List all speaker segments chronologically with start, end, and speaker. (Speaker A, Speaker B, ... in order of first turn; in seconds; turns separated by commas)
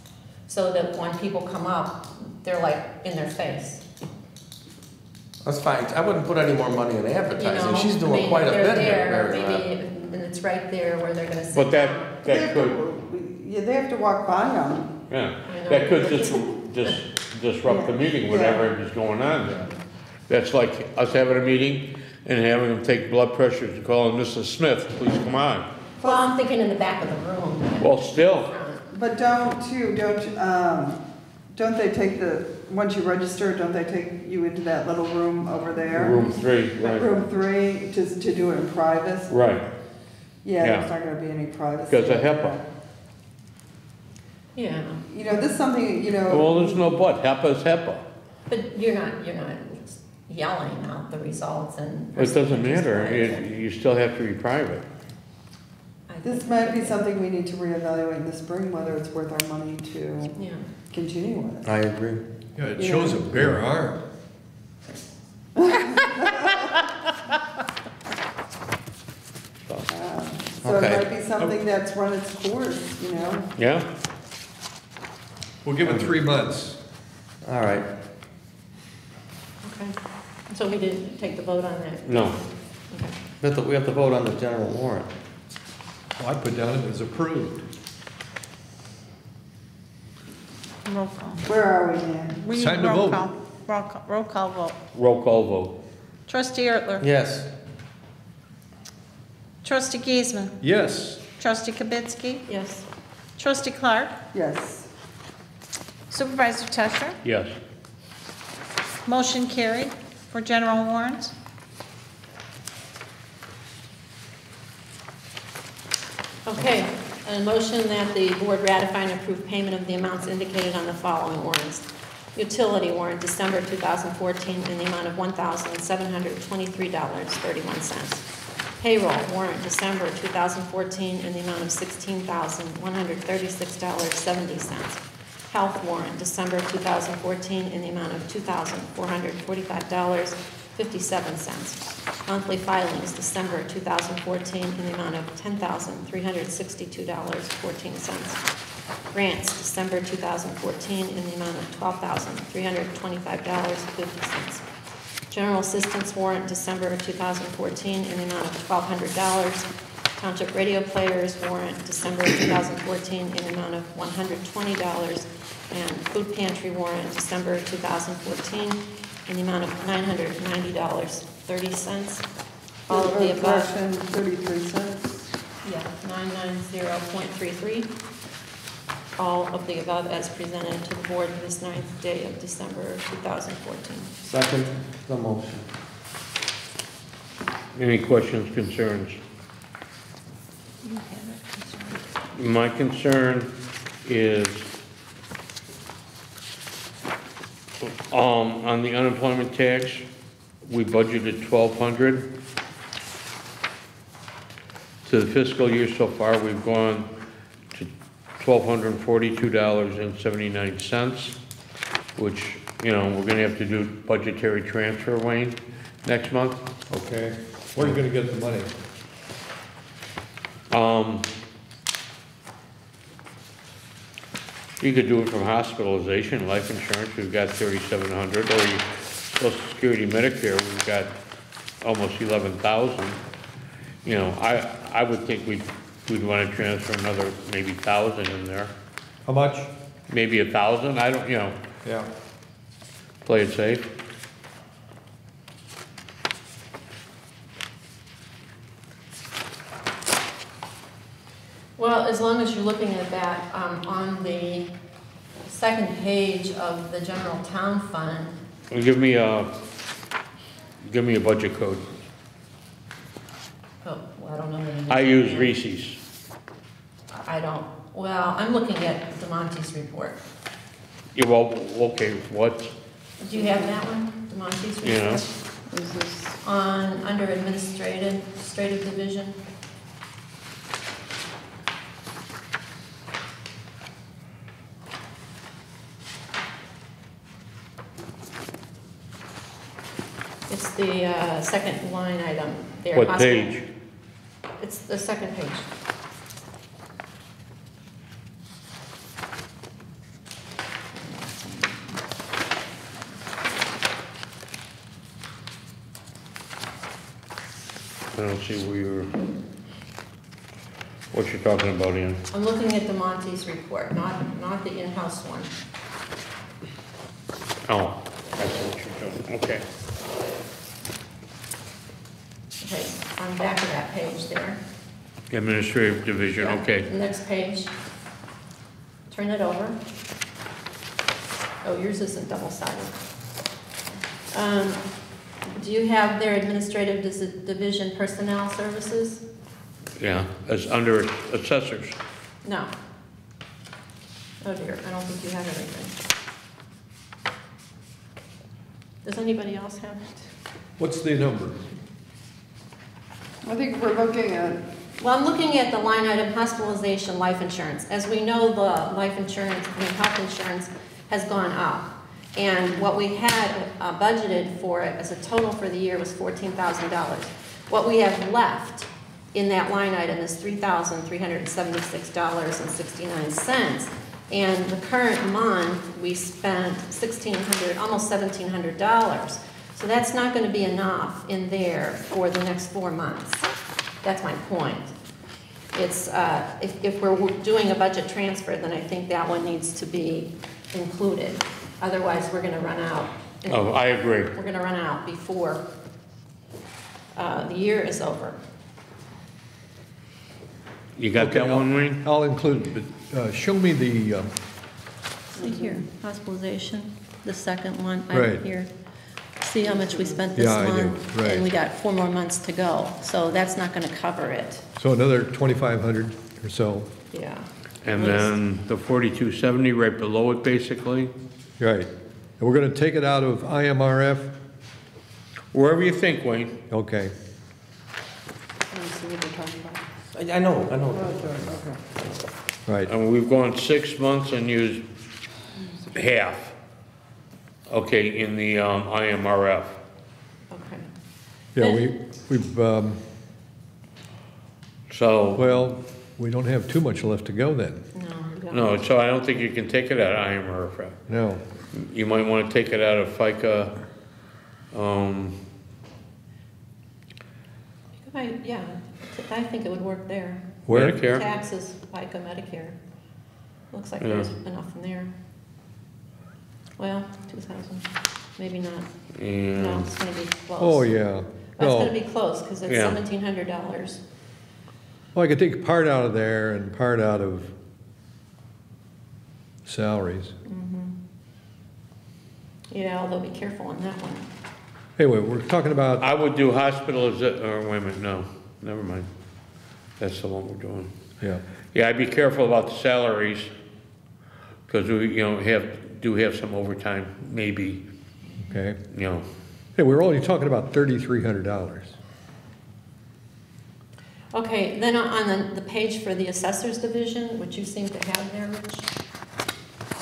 Speaker A: 0.5-3.8, Speaker B: 5.4-9.7, Speaker A: 7.4-12.1, Speaker C: 11.5-12.8, Speaker D: 12.2-15.0, Speaker C: 15.1-19.7, Speaker A: 15.4-16.5, Speaker D: 17.6-18.6, Speaker C: 20.3-25.7, Speaker A: 26.0-28.8, Speaker C: 27.8-28.5, Speaker D: 28.9-31.0, Speaker D: 31.5-36.2, Speaker C: 35.9-37.2, Speaker A: 36.1-36.4, Speaker D: 36.8-39.4, Speaker C: 39.3-39.6, Speaker D: 40.4-42.6, Speaker C: 40.6-40.9, Speaker C: 41.9-42.5, Speaker A: 44.5-45.0, Speaker D: 45.1-46.9, Speaker C: 46.3-48.0, Speaker A: 48.5-53.4, Speaker C: 52.1-54.8, Speaker A: 56.1-57.0, Speaker D: 56.2-60.4, Speaker A: 60.4-60.6, Speaker D: 60.9-61.7, Speaker B: 61.6-62.2, Speaker E: 62.5-64.0, Speaker A: 62.8-63.2, Speaker D: 65.5-66.8, Speaker D: 69.9-73.5, Speaker B: 70.6-71.1, Speaker C: 73.5-73.9, Speaker E: 75.6-76.8, Speaker B: 75.8-76.1, Speaker B: 77.4-77.9, Speaker A: 79.6-80.0, Speaker A: 80.5-83.2, Speaker C: 82.0-82.3, Speaker B: 83.4-85.1, Speaker E: 86.2-87.6, Speaker F: 90.8-91.4, Speaker D: 91.4-92.4, Speaker F: 92.4-94.8, Speaker E: 92.5-93.2, Speaker C: 94.9-95.8, Speaker F: 96.3-97.1, Speaker B: 97.0-97.5, Speaker F: 99.6-100.6, Speaker E: 100.6-101.2, Speaker F: 101.3-102.4, Speaker A: 102.5-102.8, Speaker F: 103.4-104.1, Speaker D: 104.3-104.9, Speaker F: 106.1-107.2, Speaker C: 107.2-107.6, Speaker F: 109.0-111.3, Speaker A: 116.5-128.2, Speaker A: 128.8-148.4, Speaker A: 149.1-154.6, Speaker A: 155.3-172.2, Speaker A: 172.9-173.7, Speaker D: 172.9-175.2, Speaker A: 175.6-177.9, Speaker A: 179.2-184.1, Speaker B: 184.2-185.6, Speaker C: 187.7-189.2, Speaker F: 190.8-192.0, Speaker C: 192.3-193.5, Speaker C: 194.0-194.7, Speaker C: 197.8-200.0, Speaker C: 200.7-202.3, Speaker C: 205.0-207.1, Speaker C: 207.7-211.4, Speaker C: 212.2-216.6, Speaker E: 216.9-218.7, Speaker C: 220.7-221.3, Speaker C: 224.8-231.1, Speaker C: 231.8-233.2, Speaker C: 234.0-238.7, Speaker E: 239.2-239.7, Speaker C: 240.1-241.6, Speaker E: 241.8-242.1, Speaker C: 243.2-243.9, Speaker A: 251.8-254.7, Speaker A: 255.4-258.4, Speaker C: 258.7-259.5, Speaker C: 260.8-262.0, Speaker A: 263.8-265.5, Speaker C: 264.9-266.0, Speaker A: 267.1-270.2, Speaker C: 271.1-272.7, Speaker A: 273.2-275.3, Speaker C: 274.8-275.2, Speaker D: 275.7-276.4, Speaker A: 276.4-279.4, Speaker A: 290.5-293.6, Speaker C: 292.9-293.6, Speaker A: 294.6-295.7, Speaker A: 300.9-301.8, Speaker C: 308.1-309.1, Speaker C: 311.1-312.2, Speaker A: 312.3-315.5, Speaker C: 317.7-319.6, Speaker A: 322.6-324.6, Speaker C: 325.3-326.9, Speaker A: 326.4-327.7, Speaker A: 329.1-329.8, Speaker A: 331.6-333.0, Speaker A: 334.3-334.8, Speaker A: 335.5-339.2, Speaker C: 340.0-342.0, Speaker A: 342.4-342.7, Speaker A: 344.4-345.9, Speaker A: 349.0-350.3, Speaker E: 350.8-351.6, Speaker D: 353.4-354.6, Speaker A: 355.0-383.4, Speaker A: 384.0-384.9, Speaker A: 385.7-395.6, Speaker C: 393.5-394.3, Speaker A: 397.1-398.4, Speaker C: 400.9-402.0, Speaker E: 401.1-404.3, Speaker A: 405.3-408.7, Speaker E: 408.1-408.4, Speaker A: 409.4-414.6, Speaker E: 410.3-411.5, Speaker E: 414.8-416.9, Speaker A: 417.1-418.3, Speaker C: 417.8-421.1, Speaker E: 421.6-424.4, Speaker C: 425.5-426.6, Speaker E: 426.7-427.1, Speaker D: 428.7-429.8, Speaker B: 430.1-431.3, Speaker D: 430.9-431.8, Speaker C: 432.9-434.8, Speaker C: 435.9-436.5, Speaker C: 437.7-439.8, Speaker A: 440.5-440.9, Speaker E: 441.5-443.0, Speaker A: 441.6-441.8, Speaker C: 444.9-445.5, Speaker E: 445.3-447.8, Speaker A: 447.9-448.8, Speaker C: 448.5-451.0, Speaker E: 451.1-451.4, Speaker C: 451.7-453.8, Speaker C: 454.7-455.4, Speaker A: 458.0-462.8, Speaker E: 460.7-461.0, Speaker C: 460.7-461.2, Speaker A: 463.7-465.1, Speaker C: 464.0-464.3, Speaker A: 466.8-468.9, Speaker C: 469.1-469.9, Speaker A: 469.5-470.9, Speaker E: 470.6-471.9, Speaker A: 471.6-474.0, Speaker C: 472.7-473.0, Speaker E: 475.1-477.5, Speaker E: 479.6-480.4, Speaker A: 480.4-481.0, Speaker A: 482.7-484.3, Speaker E: 485.0-486.1, Speaker C: 486.0-489.1, Speaker C: 490.0-490.9, Speaker C: 491.7-493.5, Speaker C: 494.7-497.8, Speaker E: 498.4-498.8, Speaker C: 498.9-499.2, Speaker E: 499.8-501.9, Speaker A: 504.3-508.9